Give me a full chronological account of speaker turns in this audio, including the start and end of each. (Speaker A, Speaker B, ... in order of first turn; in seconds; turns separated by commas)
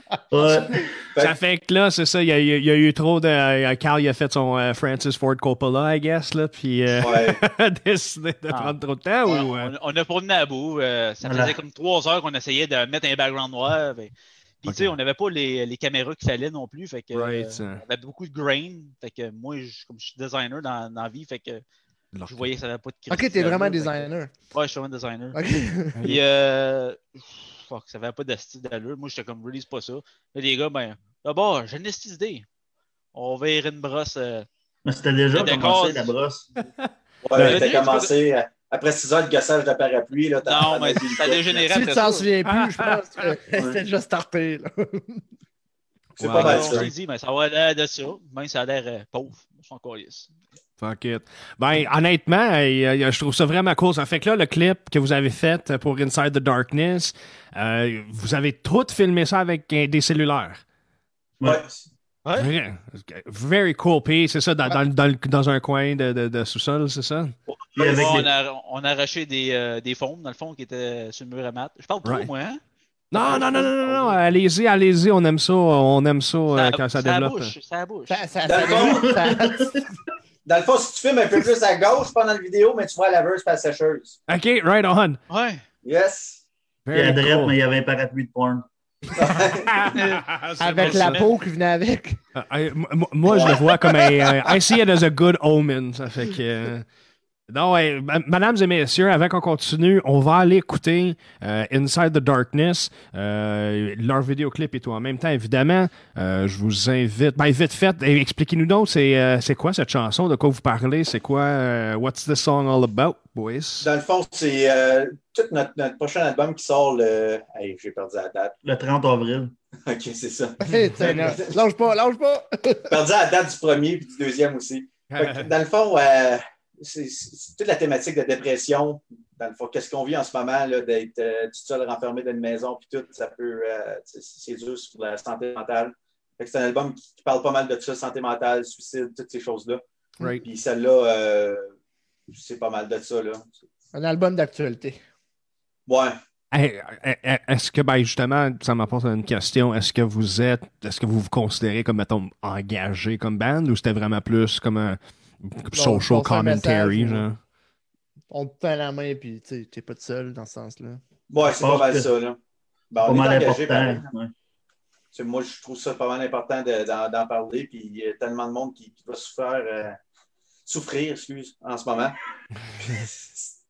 Speaker A: 0.3-1.1, Speaker B: 1.2-9.7, Speaker C: 7.0-7.4, Speaker D: 8.5-21.6, Speaker A: 11.2-11.6, Speaker B: 14.7-14.9, Speaker B: 17.1-17.8, Speaker B: 22.1-22.4, Speaker D: 22.3-25.4, Speaker E: 23.1-24.3, Speaker E: 25.3-26.0, Speaker D: 26.0-32.5, Speaker D: 33.1-34.5, Speaker A: 34.9-36.5, Speaker D: 35.3-36.1, Speaker C: 37.2-41.7, Speaker B: 37.4-37.7, Speaker D: 37.4-38.1, Speaker D: 40.5-42.3, Speaker E: 41.7-45.2, Speaker B: 42.5-43.3, Speaker C: 43.6-43.8, Speaker C: 46.2-46.9, Speaker B: 46.2-46.9, Speaker D: 46.3-50.3, Speaker B: 50.8-60.6, Speaker A: 61.4-61.7, Speaker C: 61.4-61.8, Speaker D: 62.2-62.5, Speaker B: 62.4-67.3, Speaker C: 67.5-68.3, Speaker A: 67.8-68.3, Speaker D: 67.9-72.6, Speaker B: 73.1-77.5, Speaker D: 73.3-74.1, Speaker D: 76.5-78.2, Speaker E: 78.1-79.8, Speaker C: 78.5-79.2, Speaker A: 78.7-79.9, Speaker C: 80.5-84.2, Speaker B: 84.3-85.2, Speaker D: 85.3-85.6, Speaker C: 85.8-86.5, Speaker B: 86.9-87.6, Speaker A: 86.9-88.7, Speaker C: 89.2-90.0, Speaker B: 89.7-91.2, Speaker D: 89.9-91.3, Speaker E: 90.6-92.2, Speaker B: 92.3-96.9, Speaker C: 93.3-94.2, Speaker B: 97.5-113.9, Speaker C: 113.8-118.5, Speaker A: 118.6-119.5, Speaker C: 119.9-121.6, Speaker E: 120.6-123.0, Speaker C: 122.9-139.8, Speaker B: 125.1-125.5, Speaker C: 140.4-141.7, Speaker C: 142.3-143.5, Speaker E: 143.9-145.0, Speaker C: 145.9-146.2, Speaker B: 146.5-157.4, Speaker E: 155.7-157.3, Speaker E: 158.3-161.0, Speaker C: 161.3-162.4, Speaker A: 161.5-162.1, Speaker C: 162.9-164.1, Speaker A: 163.0-164.3, Speaker C: 165.1-170.0, Speaker C: 170.7-172.2, Speaker B: 172.7-173.1, Speaker C: 172.8-173.5